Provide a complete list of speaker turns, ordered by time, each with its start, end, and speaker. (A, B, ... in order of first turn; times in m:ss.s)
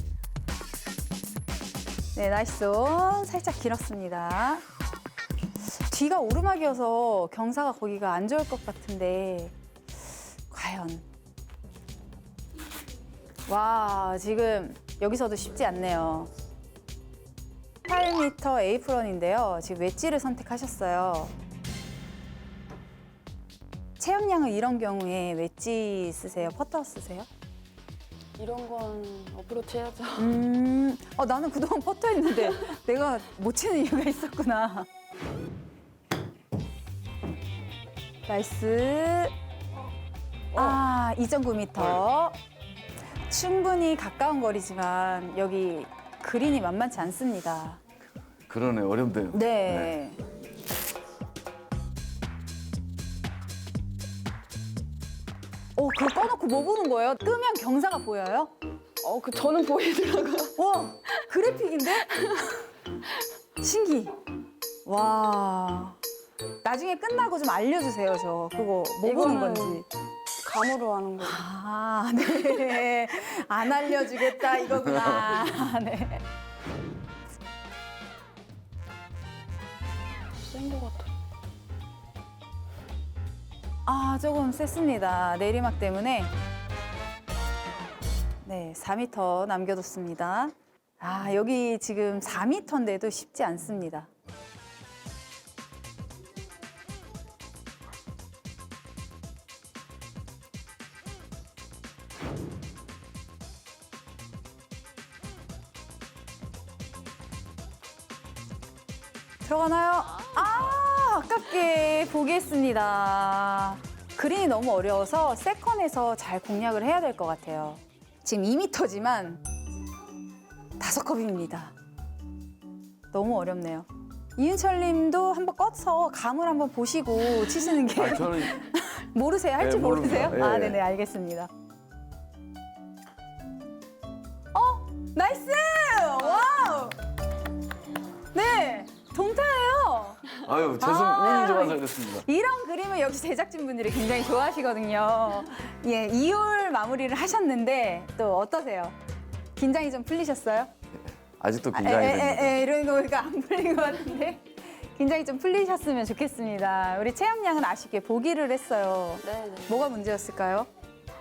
0:02.1-0:04.6 A
0:05.6-0:09.5 A
0:10.5-0:11.0 A
0:13.5-0:16.3 A
0:17.8-0:21.3 A
0:24.0-0:27.3 A
0:28.4-0:30.4 B
0:30.2-0:34.9 A
0:38.3-0:39.3 A
0:40.5-0:40.8 B
0:40.5-0:42.4 A
0:43.3-0:47.8 A
0:48.5-0:50.0 C
0:49.3-0:50.2 A
0:55.8-0:58.5 A
0:59.0-1:00.5 B
1:00.6-1:02.3 A
1:02.1-1:02.5 B
1:03.6-1:04.1 A
1:04.8-1:06.0 A
1:06.6-1:09.8 A
1:09.0-1:09.8 B
1:10.4-1:11.4 B
1:11.2-1:16.2 A
1:14.9-1:15.3 C
1:20.4-1:21.1 B
1:23.9-1:26.3 A
1:28.4-1:34.1 A
1:49.4-1:59.4 A
2:00.8-2:01.7 A
2:03.1-2:11.5 A
2:07.9-2:08.6 C
2:09.6-2:10.8 C
2:14.5-2:17.0 A
2:18.3-2:20.3 A
2:20.4-2:22.3 C
2:20.8-2:28.9 A
2:29.6-2:30.7 A
2:31.0-2:32.6 C
2:31.7-2:40.7 A
2:39.2-2:39.9 B